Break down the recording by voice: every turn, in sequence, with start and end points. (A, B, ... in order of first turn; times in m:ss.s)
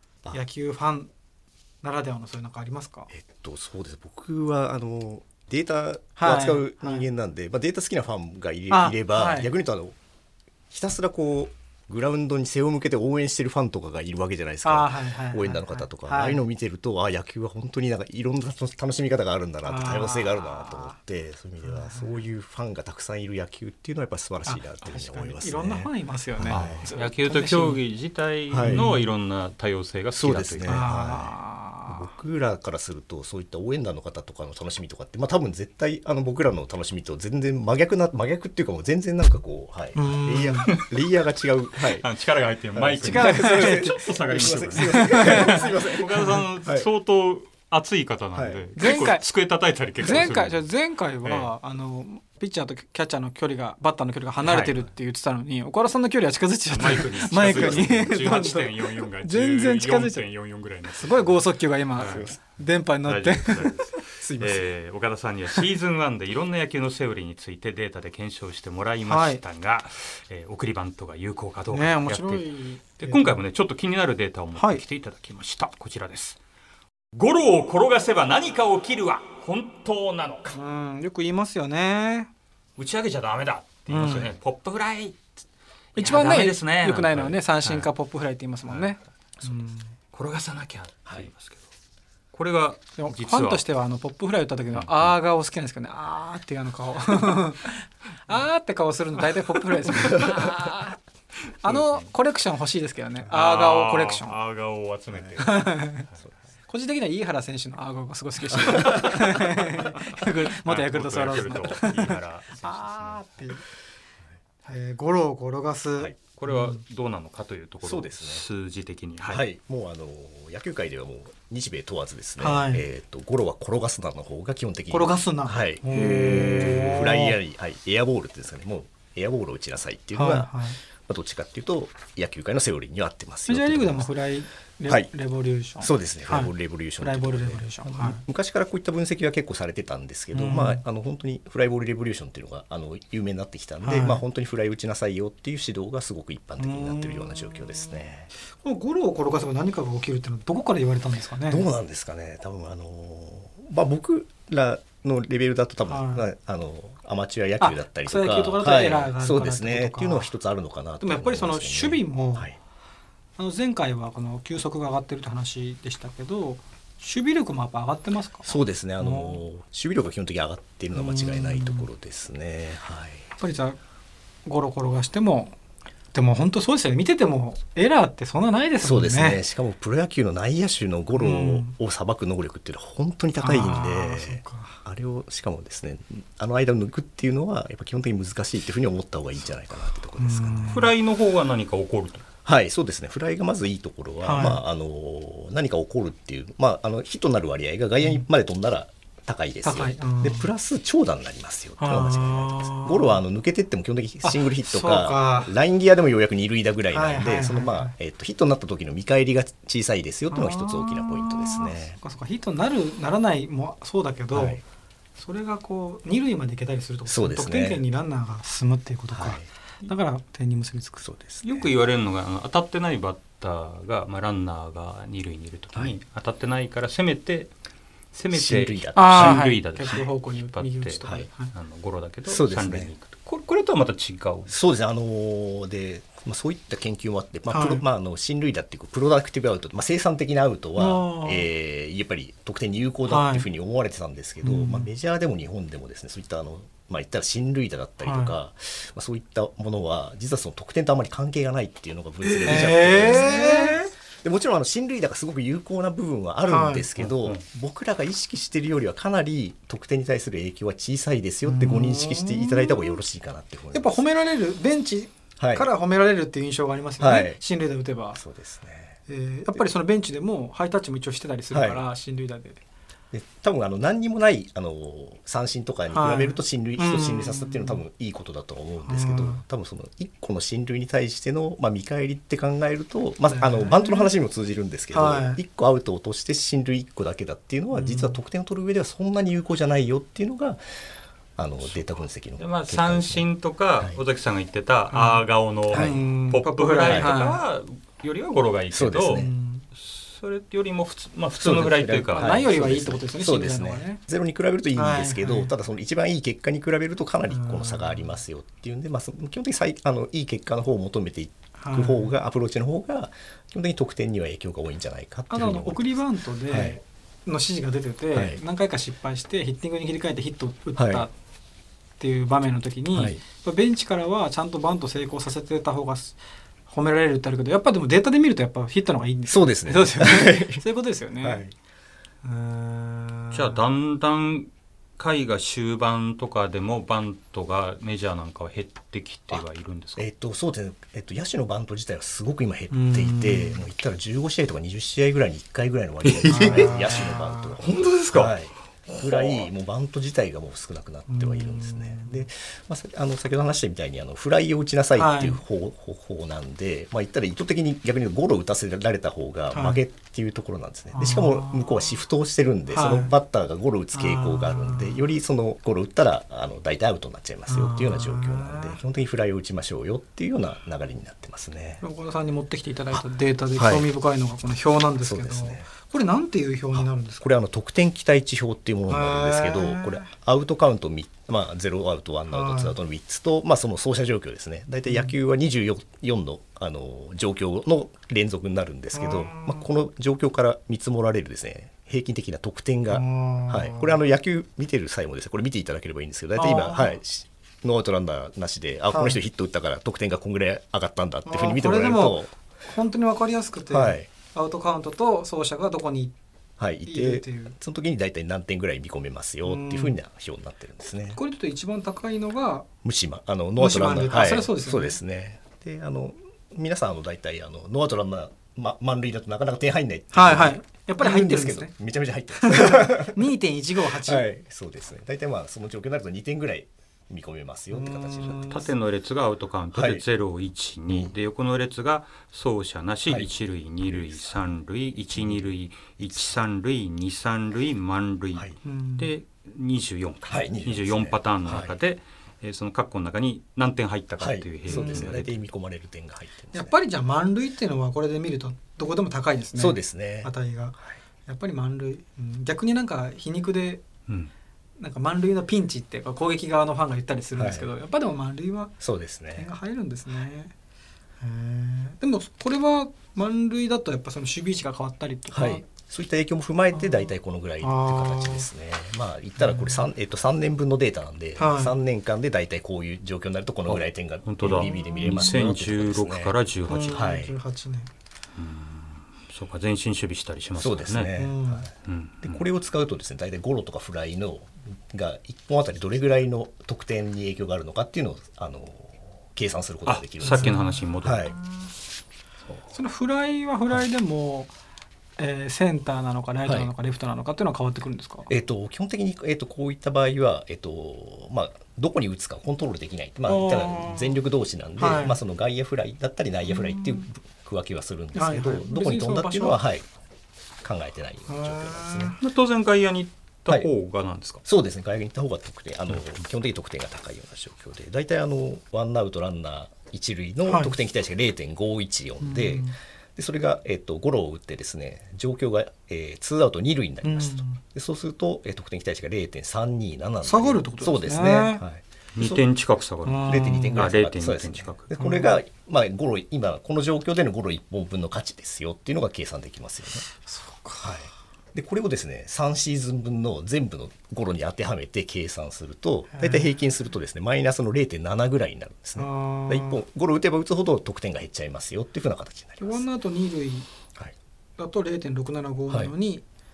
0:00.3-0:01.1 A
0:01.8-0:03.1 A
0:03.1-0:10.0 B
0:06.2-0:07.1 A
0:08.7-0:09.5 A
0:10.7-0:26.9 B
0:14.6-0:16.4 A
0:19.6-0:21.0 A
0:21.6-0:22.1 A
0:24.5-0:27.8 A
0:26.5-0:30.8 C
0:28.5-0:28.9 B
0:28.6-0:29.0 A
0:30.2-0:42.1 B
0:30.6-0:32.1 A
0:40.0-0:40.7 A
0:40.7-0:40.9 C
0:41.8-0:50.6 C
0:42.7-0:46.9 B
0:43.0-0:46.4 A
0:48.4-0:48.7 B
0:48.8-0:49.2 A
0:50.0-1:00.2 A
0:51.2-0:51.5 C
0:54.4-0:54.8 C
0:56.7-1:01.4 C
1:00.9-1:04.4 A
1:02.0-1:02.3 C
1:02.0-1:02.4 B
1:03.0-1:12.5 C
1:09.0-1:09.4 A
1:11.7-1:13.4 A
1:13.0-1:16.4 C
1:14.6-1:14.8 A
1:17.1-1:20.6 C
1:20.5-1:22.3 A
1:22.8-1:25.2 C
1:23.9-1:24.3 A
1:26.0-1:29.9 A
1:26.0-1:27.9 C
1:28.7-1:29.5 C
1:30.1-1:31.6 C
1:32.3-1:33.6 C
1:33.0-1:41.0 A
1:34.7-1:35.1 C
1:39.9-1:40.8 C
1:41.6-1:44.3 A
1:41.6-1:42.1 C
1:43.3-1:46.0 C
1:45.4-1:46.1 A
1:46.7-1:53.6 A
1:48.8-1:49.2 B
1:48.8-1:49.2 C
1:50.2-1:53.3 C
1:54.7-1:56.8 A
1:56.3-1:59.4 C
1:57.8-1:58.4 B
1:59.3-2:14.1 B
2:02.4-2:02.8 A
2:04.9-2:07.4 A
2:05.9-2:07.2 C
2:10.1-2:10.8 A
2:13.5-2:18.2 A
2:15.8-2:28.3 B
2:20.3-2:20.8 A
2:23.8-2:24.2 A
2:26.6-2:28.0 A
2:28.6-2:31.7 A
2:31.5-2:42.6 B
2:35.9-2:36.2 A
2:37.6-2:40.3 A
2:41.0-2:42.5 A
2:43.4-2:49.4 A
2:48.4-2:53.3 B
2:51.0-2:51.9 A
2:53.4-2:53.8 A
2:54.5-2:55.6 A
2:56.1-2:59.4 A
2:58.8-3:10.9 B
3:01.2-3:01.7 A
3:03.4-3:04.8 A
3:10.2-3:10.9 A
3:10.7-3:12.2 C
3:12.4-3:32.0 B
3:14.2-3:14.6 A
3:19.6-3:20.5 A
3:21.8-3:23.2 A
3:24.2-3:25.5 A
3:26.9-3:27.9 A
3:30.3-3:34.6 A
3:34.3-3:34.6 B
3:35.2-3:41.0 A
3:37.1-3:37.8 B
3:39.1-3:39.5 B
3:41.0-3:41.7 B
3:41.4-3:47.5 C
3:48.1-3:54.5 C
3:48.3-3:49.5 B
3:49.0-3:51.5 A
3:52.3-3:52.9 B
3:54.5-4:24.0 B
3:57.5-3:57.8 A
4:00.8-4:01.5 A
4:03.1-4:03.5 A
4:04.4-4:04.9 A
4:08.0-4:08.4 A
4:12.4-4:13.9 A
4:16.5-4:16.9 A
4:17.0-4:17.4 C
4:21.4-4:23.0 A
4:23.7-4:28.2 A
4:25.4-4:25.7 B
4:27.0-4:27.4 B
4:28.2-4:29.0 B
4:29.1-4:32.6 A
4:31.5-4:31.8 B
4:33.1-4:50.6 B
4:35.9-4:37.8 A
4:38.8-4:39.4 A
4:43.3-4:44.1 A
4:44.9-4:45.4 A
4:47.7-4:48.2 A
4:51.4-4:53.3 B
4:52.4-5:02.5 C
4:54.9-4:57.4 A
4:55.7-4:56.0 B
4:56.9-4:57.2 B
4:58.7-4:59.3 B
4:59.1-4:59.7 A
5:01.3-5:16.8 B
5:02.2-5:04.0 A
5:04.8-5:05.5 A
5:07.3-5:08.2 A
5:11.6-5:12.1 A
5:15.3-5:21.1 A
5:18.1-5:18.4 B
5:20.8-5:21.1 B
5:22.0-5:31.4 A
5:22.9-5:23.2 B
5:29.3-5:30.6 B
5:31.2-5:31.5 B
5:32.2-5:33.6 A
5:33.3-5:40.1 C
5:40.0-6:11.8 B
5:42.7-5:43.7 A
5:46.0-5:48.4 C
5:46.3-5:47.5 A
5:48.9-5:49.5 C
5:51.1-5:52.2 A
5:55.0-5:55.4 A
5:59.5-5:59.8 A
6:00.9-6:02.0 A
6:02.7-6:03.2 A
6:03.9-6:05.0 A
6:07.5-6:08.8 A
6:11.8-6:17.3 A
6:13.6-6:13.9 B
6:15.0-6:15.7 B
6:16.7-6:42.3 B
6:18.9-6:20.1 A
6:22.3-6:22.8 A
6:24.9-6:25.1 A
6:28.9-6:29.6 A
6:32.9-6:34.0 A
6:36.4-6:37.0 A
6:38.9-6:39.2 A
6:41.3-6:46.2 A
6:43.7-6:44.1 B
6:46.6-6:51.2 B
6:46.9-6:47.6 A
6:49.4-6:50.0 A
6:51.2-6:52.7 A
6:52.8-7:03.3 B
6:53.6-6:55.0 A
7:00.1-7:01.7 A
7:02.4-7:04.3 A
7:04.0-7:08.7 B
7:07.7-7:08.7 A
7:08.5-7:25.4 C
7:09.7-7:10.0 B
7:13.9-7:14.4 B
7:15.1-7:15.5 B
7:18.6-7:19.1 A
7:20.3-7:21.8 B
7:24.2-7:26.7 B
7:24.7-7:25.1 A
7:26.5-7:33.8 A
7:29.6-7:30.3 B
7:34.8-7:38.7 A
7:37.4-7:37.7 B
7:38.8-7:39.5 B
7:39.4-7:40.5 A
7:41.2-7:45.7 A
7:45.3-7:56.3 B
7:46.8-7:47.1 A
7:47.6-7:48.5 A
7:49.4-7:49.8 A
7:51.4-7:51.8 A
7:53.7-7:57.1 C
7:54.5-7:55.4 A
7:56.7-7:57.9 A
7:56.9-7:57.3 B
7:58.4-8:01.1 C
8:00.6-8:01.7 B
8:01.2-8:01.7 A
8:01.8-8:02.4 C
8:02.2-8:11.4 B
8:09.9-8:11.3 C
8:10.2-8:11.7 A
8:12.7-8:14.5 A
8:15.2-8:18.3 A
8:16.4-8:16.7 B
8:18.3-8:29.9 B
8:23.3-8:24.2 A
8:24.8-8:25.2 A
8:26.5-8:27.0 A
8:28.2-8:29.6 A
8:30.6-8:32.2 B
8:31.3-8:32.2 A
8:32.2-8:34.4 C
8:34.4-8:52.4 B
8:40.5-8:40.7 A
8:42.2-8:42.8 A
8:47.0-8:47.6 A
8:50.2-8:51.6 A
8:52.2-8:54.9 C
8:53.0-8:53.8 A
8:53.3-9:00.1 B
8:55.0-8:55.4 A
9:00.2-9:01.0 A
9:00.8-9:12.8 B
9:06.1-9:06.6 A
9:09.0-9:09.8 A
9:12.6-9:13.7 A
9:14.6-9:16.2 A